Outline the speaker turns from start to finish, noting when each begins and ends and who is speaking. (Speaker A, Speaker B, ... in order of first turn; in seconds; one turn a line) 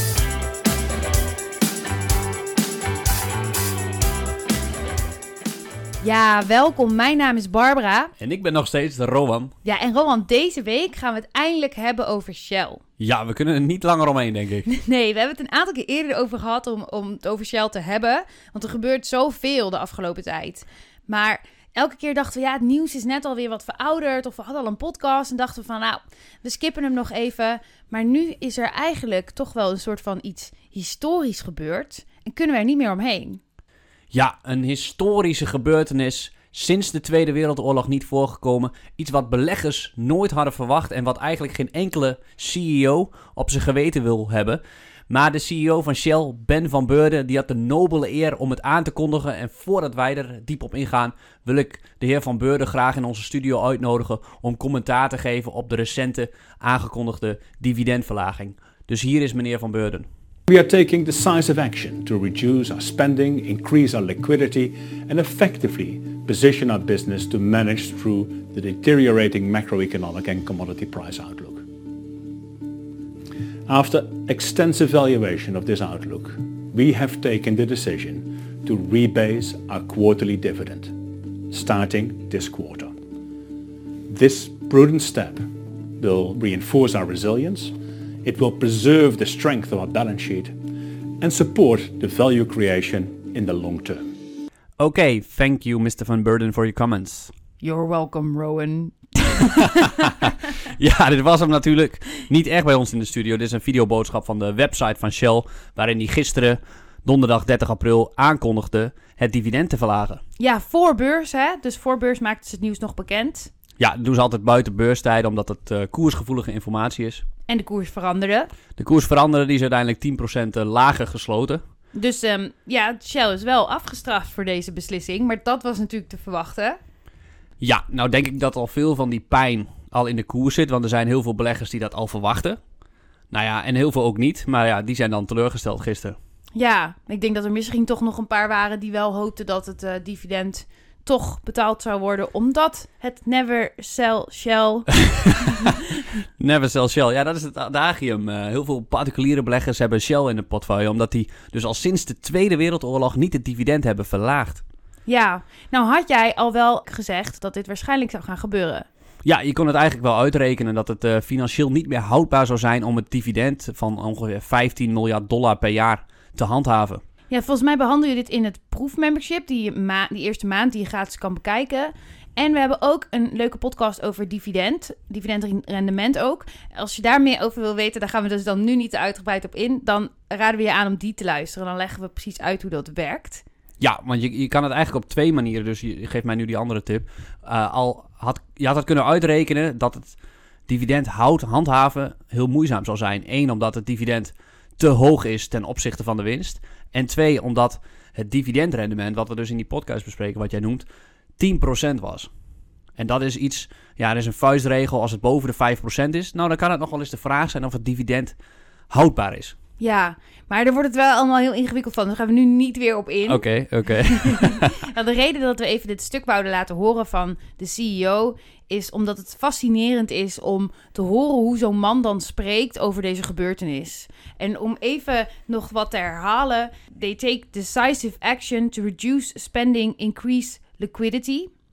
Speaker A: 6.0-8.1
Speaker B: 8.2-9.5
Speaker A: 9.6-12.8
Speaker B: 13.0-14.7
Speaker A: 14.7-33.4
Speaker B: 34.1-60.1
Speaker C: 60.5-71.7
Speaker C: 73.7-81.0
Speaker C: 81.5-82.9
Speaker C: 84.1-90.7
Speaker C: 91.2-94.1
Speaker B: 94.8-97.3
Speaker A: 97.6-100.3
Speaker B: 99.7-110.2
Speaker A: 110.4-113.5
Speaker B: 113.8-117.2
Speaker A: 117.5-118.5
Speaker B: 118.8-121.6
Speaker A: 121.9-126.8
Speaker B: 127.6-132.6
Speaker B: 133.3-136.2
Speaker A: 136.5-145.8
Speaker B: 145.3-145.7
Speaker B: 146.4-154.6
Speaker A: 155.1-158.8
Speaker B: 159.2-167.0
Speaker A: 167.3-183.4
Speaker B: 183.8-190.2
Speaker B: 190.7-200.8
Speaker B: 201.4-202.3
Speaker B: 203.0-208.4
Speaker B: 208.9-209.6
Speaker A: 209.8-231.5
Speaker B: 213.3-214.7